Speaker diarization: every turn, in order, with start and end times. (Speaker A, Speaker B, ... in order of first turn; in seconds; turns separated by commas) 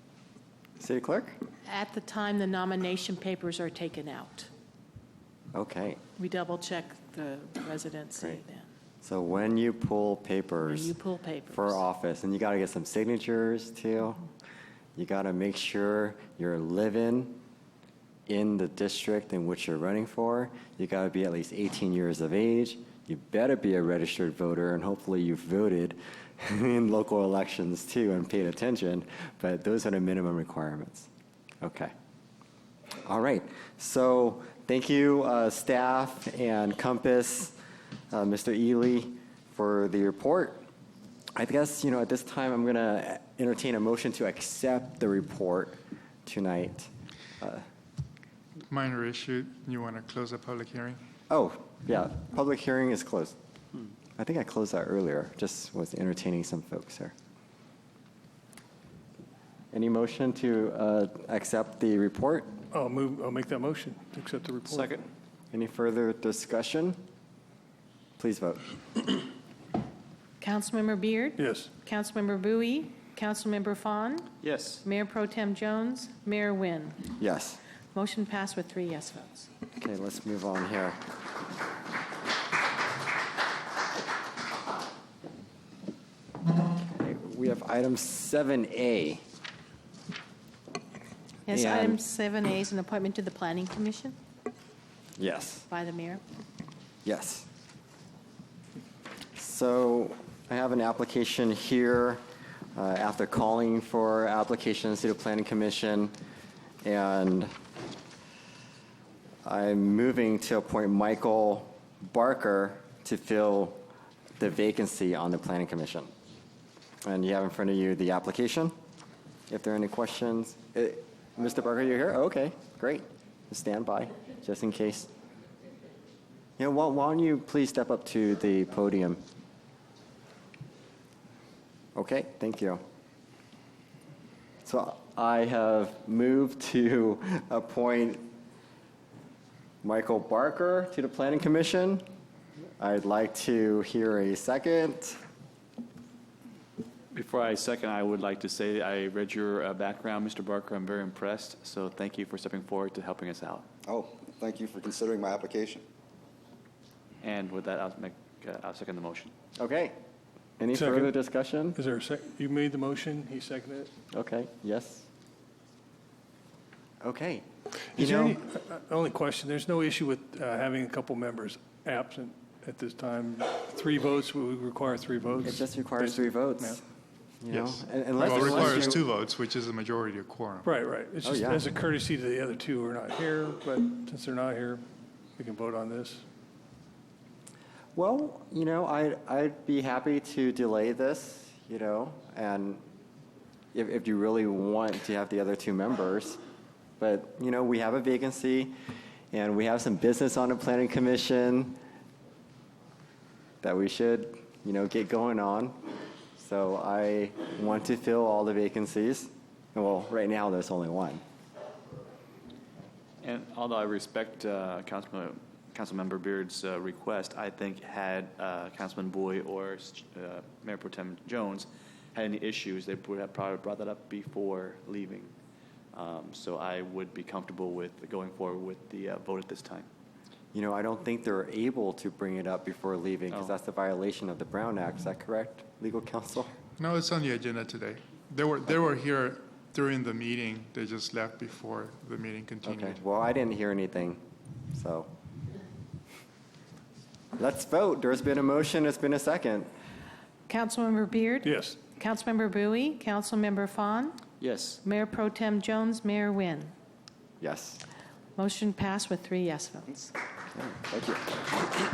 Speaker A: 0.8-1.4, Speaker B: 1.6-4.5, Speaker A: 5.5-6.0, Speaker B: 6.2-8.7, Speaker A: 9.0-10.9, Speaker B: 10.7-11.8, Speaker A: 11.5-14.2, Speaker A: 14.9-17.4, Speaker A: 18.3-31.1, Speaker A: 31.6-31.9, Speaker A: 33.0-37.5, Speaker A: 38.1-40.6, Speaker A: 41.3-46.9, Speaker C: 48.7-51.0, Speaker A: 51.3-53.3, Speaker A: 54.2-57.1, Speaker A: 59.7-62.5, Speaker D: 62.7-64.9, Speaker E: 64.7-65.0, Speaker A: 65.5-67.0, Speaker A: 68.2-68.6, Speaker B: 70.4-74.3, Speaker D: 71.4-71.7, Speaker E: 74.4-74.8, Speaker B: 74.8-77.0, Speaker A: 77.2-77.6, Speaker B: 77.9-79.5, Speaker A: 79.8-81.0, Speaker A: 86.8-89.2, Speaker B: 91.5-94.2, Speaker A: 91.5-92.0, Speaker A: 95.2-95.6, Speaker B: 95.7-96.2, Speaker A: 97.0-97.5, Speaker A: 99.3-102.2, Speaker A: 102.7-106.1, Speaker A: 106.8-107.5, Speaker A: 109.4-113.8, Speaker A: 114.4-116.1, Speaker A: 117.0-118.7, Speaker A: 119.5-125.1, Speaker A: 126.6-129.2, Speaker A: 131.9-132.8, Speaker A: 134.6-138.2, Speaker A: 139.8-142.0, Speaker A: 142.8-145.2, Speaker E: 147.1-153.7, Speaker F: 153.8-155.8, Speaker E: 157.2-159.3, Speaker A: 159.6-159.9, Speaker A: 160.6-161.8, Speaker D: 160.7-161.1, Speaker D: 161.7-163.9, Speaker A: 164.1-165.1, Speaker A: 167.0-167.4, Speaker A: 167.9-168.3, Speaker D: 167.9-176.8, Speaker A: 175.4-176.8, Speaker A: 177.4-179.0, Speaker C: 177.5-180.7, Speaker D: 178.3-178.8, Speaker D: 180.6-184.8, Speaker A: 181.2-181.6, Speaker D: 185.3-186.2, Speaker A: 187.9-192.8, Speaker A: 193.7-196.4, Speaker A: 197.0-198.7, Speaker A: 199.3-201.8, Speaker A: 203.6-205.8, Speaker A: 206.4-211.2, Speaker E: 213.2-225.3, Speaker E: 225.9-229.9, Speaker A: 230.5-236.5, Speaker C: 236.8-243.0, Speaker A: 242.6-244.2, Speaker A: 244.7-245.1, Speaker A: 247.4-249.7, Speaker B: 250.5-254.2, Speaker D: 251.4-251.8, Speaker E: 254.4-254.8, Speaker B: 254.8-256.7, Speaker A: 257.4-257.8, Speaker B: 258.4-260.1, Speaker F: 260.9-261.2